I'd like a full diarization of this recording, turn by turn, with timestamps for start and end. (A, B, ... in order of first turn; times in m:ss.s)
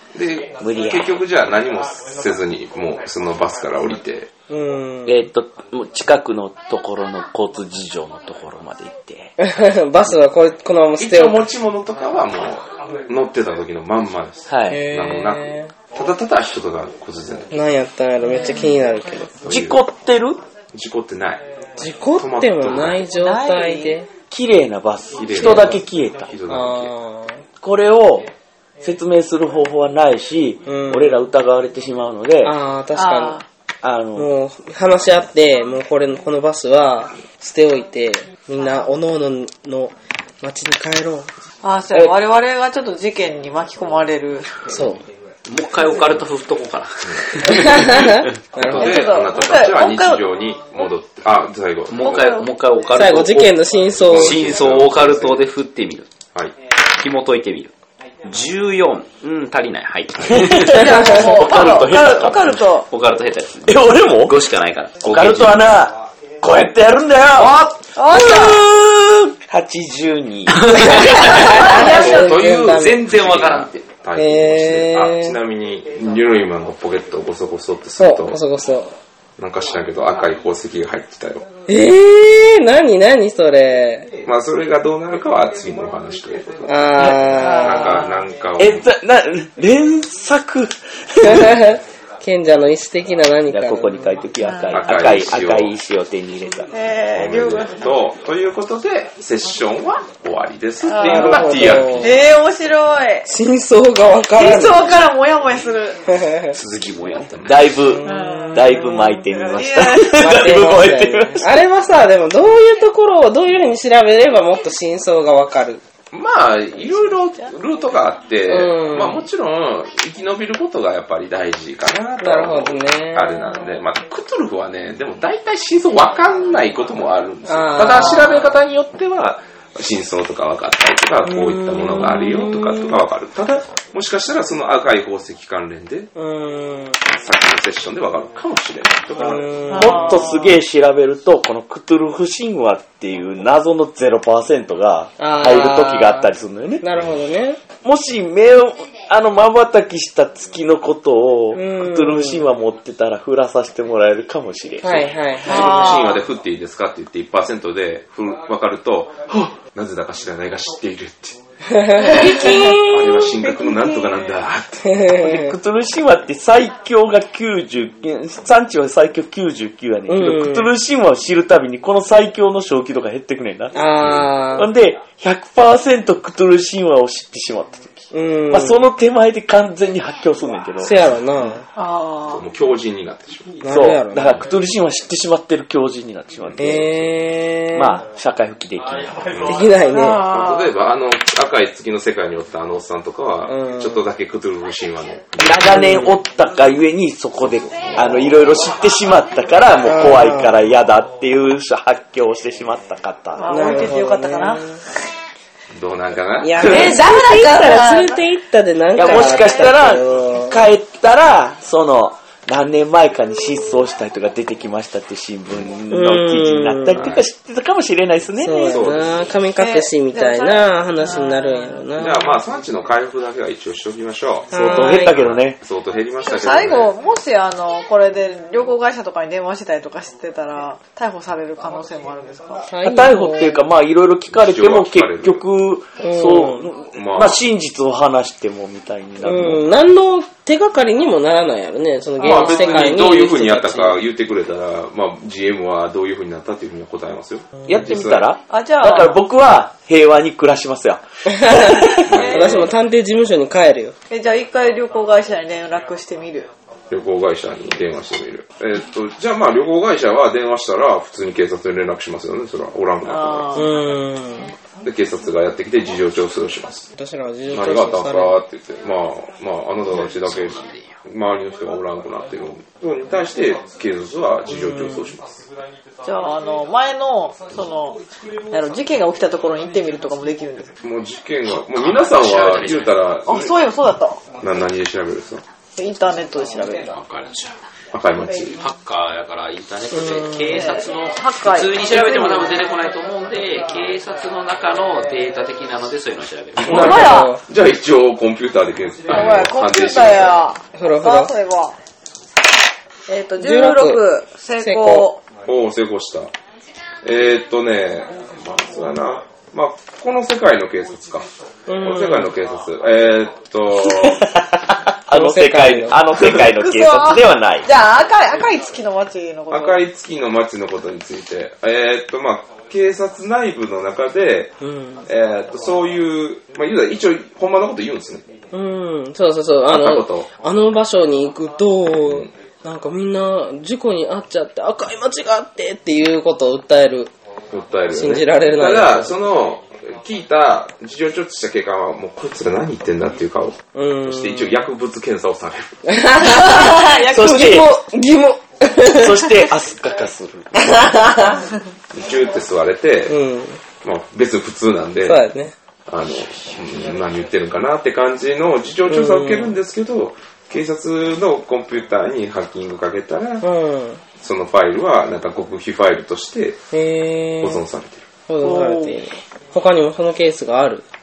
0:00.1-0:04.3 A
0:00.6-0:01.2 B
0:04.5-0:05.2 C
0:05.0-0:09.3 B
0:09.4-0:11.4 C
0:11.0-0:17.6 A
0:14.5-0:14.8 B
0:14.7-0:15.7 C
0:17.5-0:19.3 C
0:18.3-0:18.7 D
0:19.4-0:19.8 A
0:19.5-0:20.4 B
0:20.7-0:21.4 A
0:21.8-0:24.1 C
0:22.2-0:23.1 A
0:23.1-0:23.9 D
0:24.3-0:26.3 B
0:25.1-0:26.9 A
0:26.4-0:27.4 C
0:27.6-0:28.3 B
0:28.8-0:32.6 B
0:30.6-0:31.2 C
0:32.4-0:33.4 C
0:32.9-0:33.4 D
0:33.8-0:34.3 B
0:34.2-0:41.3 C
0:41.6-0:44.7 D
0:44.7-0:45.0 C
0:45.4-0:48.2 E
0:47.0-0:52.3 A
0:47.4-0:49.1 C
0:48.6-0:50.2 D
0:51.9-0:56.1 E
0:52.0-0:52.5 D
0:52.9-0:54.5 C
0:53.9-0:55.5 A
0:57.0-0:57.7 E
0:58.2-1:01.0 E
1:00.2-1:02.5 B
1:00.4-1:02.9 D
1:02.0-1:02.3 E
1:02.9-1:05.6 E
1:03.6-1:04.3 B
1:05.0-1:11.8 B
1:07.3-1:07.8 E
1:08.0-1:08.6 D
1:10.5-1:13.8 E
1:11.0-1:13.0 C
1:11.7-1:18.4 A
1:14.2-1:15.4 C
1:18.0-1:18.9 C
1:19.4-1:21.5 A
1:21.7-1:24.1 C
1:24.2-1:28.8 A
1:26.6-1:28.1 C
1:27.0-1:27.2 B
1:27.2-1:28.2 D
1:28.6-1:31.6 B
1:31.2-1:34.2 C
1:33.5-1:36.7 B
1:34.4-1:35.0 D
1:34.7-1:35.7 A
1:36.7-1:37.8 D
1:37.1-1:42.2 A
1:40.9-1:43.3 D
1:40.9-1:42.2 C
1:43.2-1:45.0 C
1:44.3-1:46.1 D
1:46.1-1:46.5 C
1:46.5-1:47.6 E
1:47.3-1:47.5 A
1:47.4-1:51.6 B
1:47.8-1:49.1 C
1:48.0-1:50.2 D
1:50.0-1:55.8 C
1:56.1-2:16.1 A
1:58.5-1:59.2 C
2:02.2-2:03.8 C
2:07.5-2:08.6 C
2:11.2-2:13.0 C
2:16.1-2:17.1 C
2:17.1-2:19.5 A
2:19.2-2:20.3 C
2:19.7-2:26.8 B
2:19.7-2:20.6 D
2:25.2-2:27.6 C
2:27.8-2:35.0 B
2:31.5-2:32.4 C
2:34.8-2:36.0 C
2:34.9-2:41.4 A
2:35.4-2:36.2 D
2:41.7-2:43.4 C
2:42.0-2:42.8 D
2:42.0-2:42.9 B
2:42.8-2:44.9 A
2:44.8-2:45.6 C
2:45.2-3:01.0 B
2:50.1-2:50.7 C
2:53.7-2:54.7 C
2:54.0-2:54.3 A
2:58.1-2:58.8 C
3:00.8-3:01.6 C
3:01.7-3:02.4 D
3:02.3-3:03.6 A
3:03.6-3:04.4 C
3:03.6-3:07.1 B
3:06.6-3:08.0 C
3:07.7-3:09.5 B
3:09.3-3:09.6 A
3:09.4-3:10.2 C
3:09.5-3:10.7 D
3:10.2-3:16.1 A
3:13.5-3:14.0 C
3:15.4-3:23.8 B
3:15.8-3:16.1 C
3:17.4-3:18.6 A
3:19.8-3:20.6 C
3:23.4-3:24.8 D
3:23.4-3:24.8 C
3:25.7-3:27.0 A
3:26.4-3:30.6 C
3:26.7-3:28.2 D
3:26.7-3:27.1 B
3:28.9-3:38.9 B
3:29.0-3:29.9 D
3:35.9-3:37.2 C
3:36.9-3:37.2 A
3:38.4-3:42.4 C
3:38.7-3:39.3 A
3:39.6-3:41.8 D
3:42.0-3:46.9 A
3:44.5-3:45.2 C
3:44.5-3:45.6 B
3:46.2-3:52.6 D
3:52.6-3:53.6 C
3:52.8-3:59.7 B
3:54.3-3:55.4 A
3:56.0-3:56.7 C
3:56.9-3:57.4 A
3:59.2-4:04.0 C
4:02.2-4:02.9 D
4:02.2-4:08.2 A
4:07.6-4:12.1 B
4:08.5-4:09.2 D
4:11.3-4:13.9 C
4:12.0-4:12.7 A
4:12.2-4:12.7 D
4:14.1-4:16.5 D
4:16.9-4:23.6 A
4:23.0-4:23.8 D
4:23.5-4:24.5 C
4:24.8-4:26.9 A
4:27.0-4:28.3 C
4:27.5-4:35.4 A
4:29.9-4:31.0 E
4:34.5-4:35.1 C
4:36.0-4:40.7 D
4:40.8-4:43.5 A
4:41.5-4:43.0 E
4:43.2-4:44.2 D
4:44.4-4:45.4 A
4:45.7-4:47.0 D
4:46.9-4:47.5 E
4:47.9-4:48.6 A
4:48.6-4:56.9 E
4:49.9-4:50.7 C
4:50.5-4:52.6 D
4:56.6-5:00.4 A
4:56.6-4:57.3 D
4:56.7-4:57.4 C
4:59.1-5:01.8 D
5:00.7-5:01.3 C
5:03.1-5:05.2 D
5:03.4-5:04.0 C
5:04.6-5:05.1 C
5:05.4-5:06.3 A
5:07.0-5:11.3 A
5:11.7-5:12.3 C
5:11.8-5:14.3 A
5:14.0-5:17.7 B
5:15.1-5:16.0 C
5:16.1-5:19.8 D
5:19.5-5:28.3 A
5:24.6-5:25.0 C
5:28.5-5:37.1 C
5:29.7-5:30.3 A
5:37.5-5:45.8 A
5:37.9-5:39.1 C
5:43.7-5:44.6 C
5:45.8-5:49.5 C
5:46.2-5:47.6 D
5:47.1-5:47.7 B
5:48.8-5:50.7 B
5:50.5-5:51.5 C
5:51.9-5:53.2 A
5:53.1-5:53.6 C
5:53.8-5:55.2 A
5:55.0-5:55.5 C
5:55.9-6:03.4 A
5:58.9-5:59.5 C
6:03.4-6:04.0 C
6:04.2-6:06.6 A
6:06.7-6:07.6 C
6:07.4-6:08.1 A
6:08.3-6:10.8 C
6:08.4-6:09.0 B